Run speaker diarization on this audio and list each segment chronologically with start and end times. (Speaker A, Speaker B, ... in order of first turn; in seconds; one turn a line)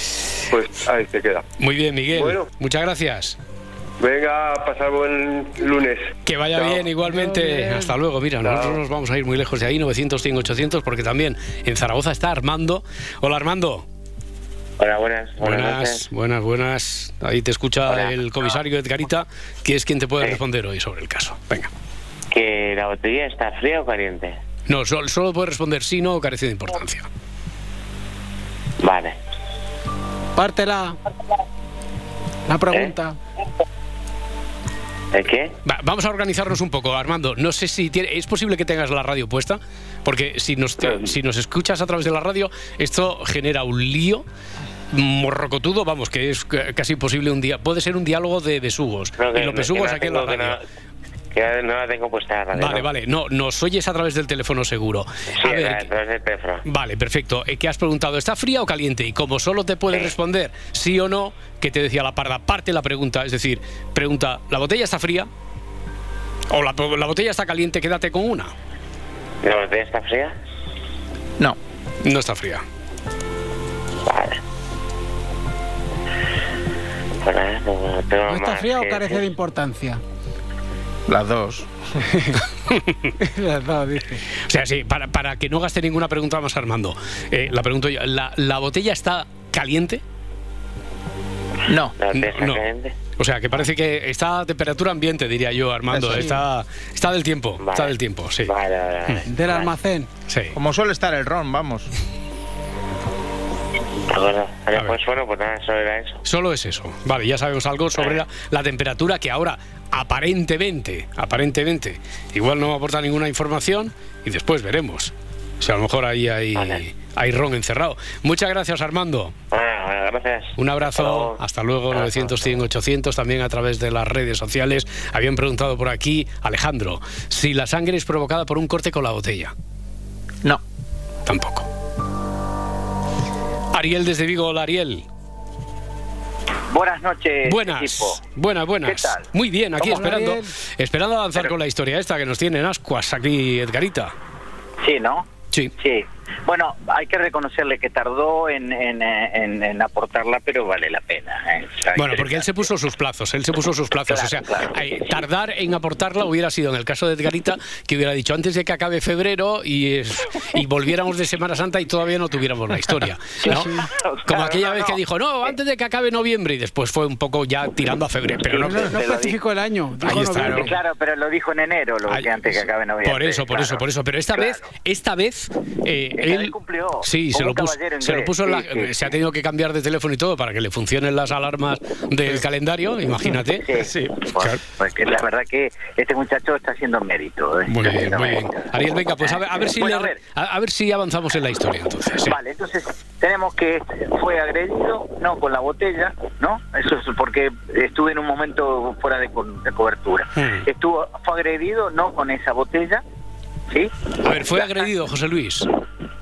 Speaker A: 0.5-1.4
Speaker B: 1.6-3.4
Speaker A: 2.1-2.5
Speaker A: 4.0-6.9
Speaker B: 6.2-13.8
Speaker C: 7.0-7.9
Speaker A: 8.4-8.8
Speaker D: 14.8-16.1
Speaker B: 15.4-21.7
Speaker D: 17.9-18.1
Speaker D: 22.3-24.4
Speaker B: 24.7-27.1
Speaker D: 28.8-29.2
Speaker C: 30.4-30.9
Speaker C: 32.5-33.2
Speaker D: 35.1-35.5
Speaker B: 35.6-44.2
Speaker B: 44.9-50.6
Speaker D: 49.2-50.6
Speaker D: 51.3-52.9
Speaker B: 52.5-55.9
Speaker D: 55.3-56.6
Speaker B: 56.6-65.3
Speaker B: 66.5-68.5
Speaker D: 69.4-70.3
Speaker B: 72.0-72.6
Speaker D: 74.0-74.4
Speaker D: 77.2-79.3
Speaker C: 78.3-80.0
Speaker E: 81.1-81.7
Speaker C: 82.1-82.4
Speaker B: 82.7-82.9
Speaker C: 83.2-84.2
Speaker B: 84.5-90.0
Speaker E: 91.7-92.0
Speaker D: 92.0-93.0
Speaker B: 92.1-92.6
Speaker B: 93.2-98.5
Speaker E: 95.9-96.3
Speaker D: 97.6-99.7
Speaker C: 99.3-100.1
Speaker B: 100.3-100.5
Speaker E: 100.5-101.9
Speaker D: 104.1-106.2
Speaker B: 106.2-119.3
Speaker D: 108.0-108.2
Speaker D: 116.5-116.8
Speaker D: 119.5-121.4
Speaker B: 120.6-129.5
Speaker D: 121.9-122.6
Speaker B: 131.2-131.7
Speaker B: 133.7-135.0
Speaker F: 136.7-138.2
Speaker B: 137.4-144.1
Speaker F: 138.8-139.2
Speaker C: 139.8-140.5
Speaker F: 144.8-145.3
Speaker F: 145.8-152.6
Speaker B: 151.9-163.7
Speaker F: 154.1-155.2
Speaker C: 163.4-163.8
Speaker F: 163.4-165.5
Speaker B: 164.2-169.0
Speaker C: 168.5-170.7
Speaker F: 168.6-169.4
Speaker B: 170.0-170.7
Speaker F: 170.4-174.6
Speaker B: 172.1-183.7
Speaker F: 176.2-179.1
Speaker F: 183.6-188.7
Speaker E: 183.8-184.1
Speaker B: 187.7-192.4
Speaker F: 189.2-190.2
Speaker F: 192.2-203.0
Speaker B: 200.4-200.7
Speaker F: 203.7-204.9
Speaker B: 204.2-205.7